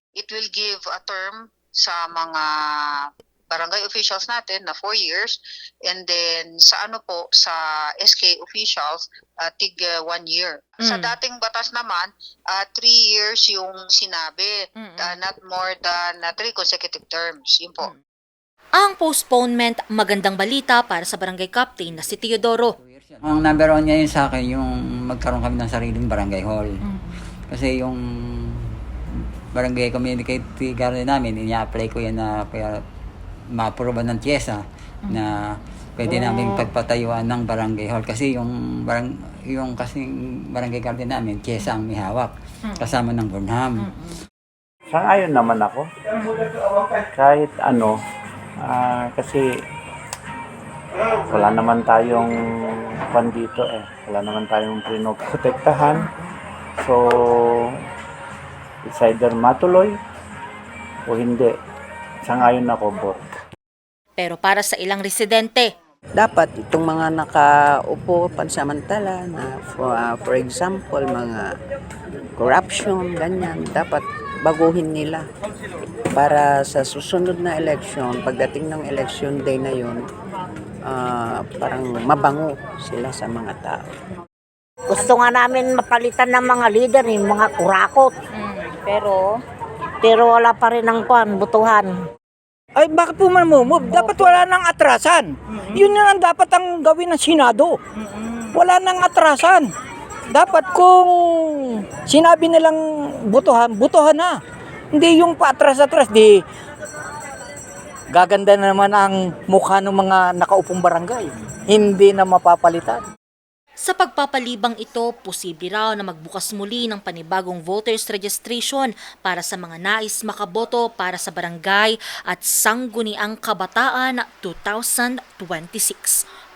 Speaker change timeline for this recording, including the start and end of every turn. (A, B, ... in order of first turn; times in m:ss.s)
0:00.2-0:17.9 A
0:10.8-0:11.1 B
0:14.8-0:15.2 B
0:18.8-0:22.7 B
0:22.8-0:26.8 C
0:27.5-0:28.6 C
0:29.5-0:32.7 C
0:33.5-0:43.9 C
0:43.8-0:44.1 B
0:44.9-0:45.9 D
0:47.1-0:47.9 D
0:48.6-0:49.4 D
0:51.3-0:56.1 D
0:56.8-0:57.8 D
0:58.9-1:00.0 D
1:01.0-1:01.5 D
1:02.2-1:03.2 D
1:04.2-1:05.7 B
1:06.2-1:11.4 E
1:12.4-1:15.2 E
1:16.1-1:20.0 E
1:20.9-1:23.8 E
1:24.9-1:29.4 F
1:30.0-1:32.0 F
1:32.8-1:37.8 G
1:33.9-1:34.4 F
1:38.5-1:39.7 G
1:40.3-1:44.4 G
1:44.9-1:46.4 G
1:48.1-1:53.0 G
1:53.8-2:06.2 B